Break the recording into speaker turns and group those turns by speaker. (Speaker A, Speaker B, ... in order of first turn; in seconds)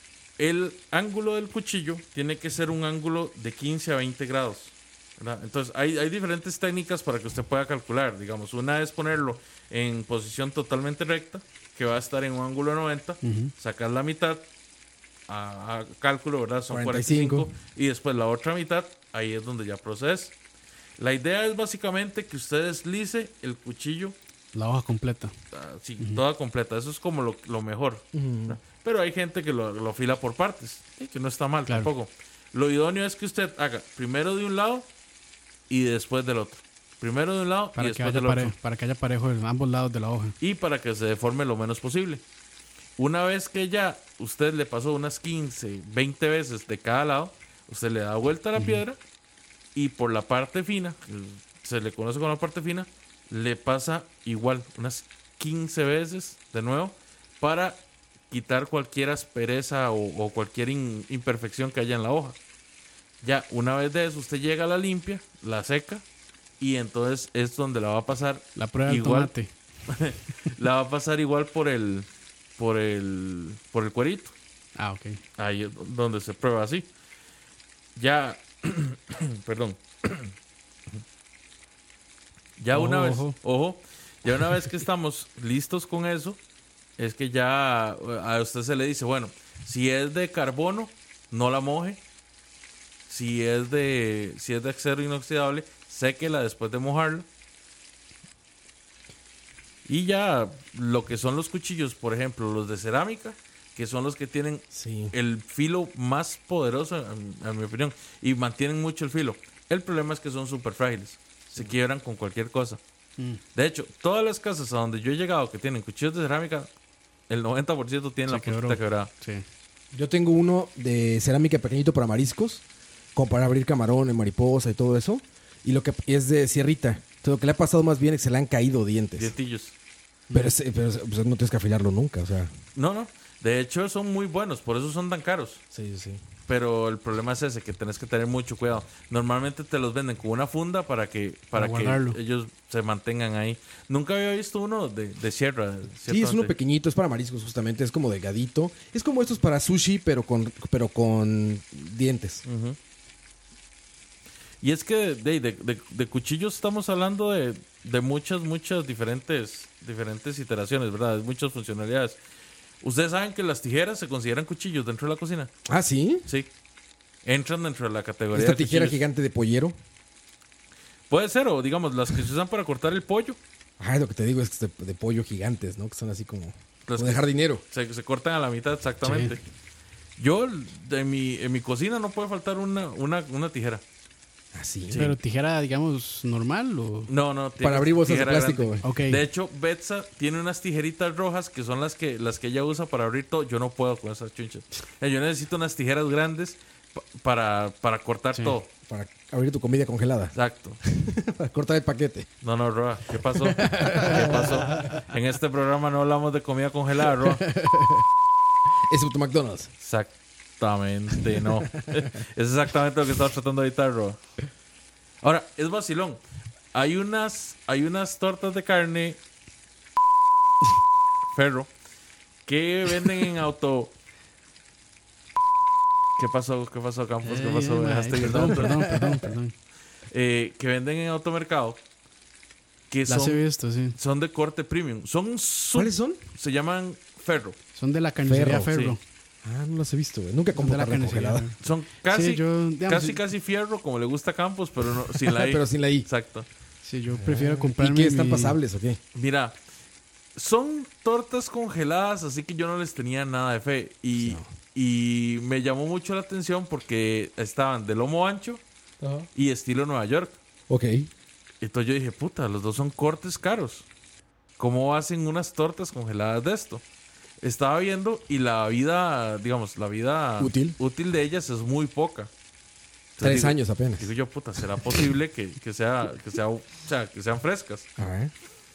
Speaker A: 0.4-14.4, 15.3-20.3, 21.0-24.1, 25.5-34.9, 35.7-38.5, 40.4-42.2, 43.0-49.0, 49.7-62.4, 63.2-66.0, 66.6-69.3, 69.9-72.0, 72.6-74.3, 75.4-76.9, 78.0-80.3, 82.6-86.4, 87.0-92.0, 93.1-97.2, 99.8-112.8, 113.5-116.7, 117.3-119.1, 129.2-129.7, 132.7-135.6, 136.5-146.5, 152.4-152.8, 154.6-162.2, 162.8-165.5, 167.2-169.0, 171.1-173.4, 176.9-179.4, 180.2-183.8, 184.9-185.2, 187.1-198.7, 200.3-200.8, 202.4-207.4, 209.8-214.2, 215.2-216.2, 216.7-219.2, 221.3-221.7, 222.4-223.9, 226.2-228.8, 230.1-231.8, 232.9-233.4, 233.9-237.6, 238.7-238.9, 241.6-246.4, 249.1-249.5, 250.3-258.6, 259.3-260.4, 261.6-263.9, 264.6-266.8, 267.4-272.3, 273.2-277.9
Speaker B: 13.2-13.5, 24.5-25.3, 37.8-40.4, 48.5-48.8, 68.5-69.5, 74.8-75.2, 82.7-83.3, 118.3-119.4, 141.5-142.2, 179.0-179.3, 184.9-187.1, 188.8-189.2, 227.2-229.5, 233.1-234.0, 237.7-239.0, 240.6-241.5, 242.1-243.2, 246.8-248.6
Speaker C: 16.7-17.5, 28.1-28.6, 104.7-105.1, 119.9-122.6, 123.1-129.3, 130.3-132.5, 135.7-136.2, 146.1-152.4, 165.7-166.3, 168.3-169.8, 173.8-177.6, 184.5-185.0, 187.6-188.8, 198.9-202.3, 203.3-204.7, 207.6-208.0, 208.9-209.7, 228.6-229.0, 235.7-236.2, 238.2-238.7, 239.4-241.5, 245.2-246.1, 247.1-249.0, 254.2-254.5, 259.0-259.3, 260.7-261.1, 270.4-270.8, 273.2-274.1, 278.0-278.3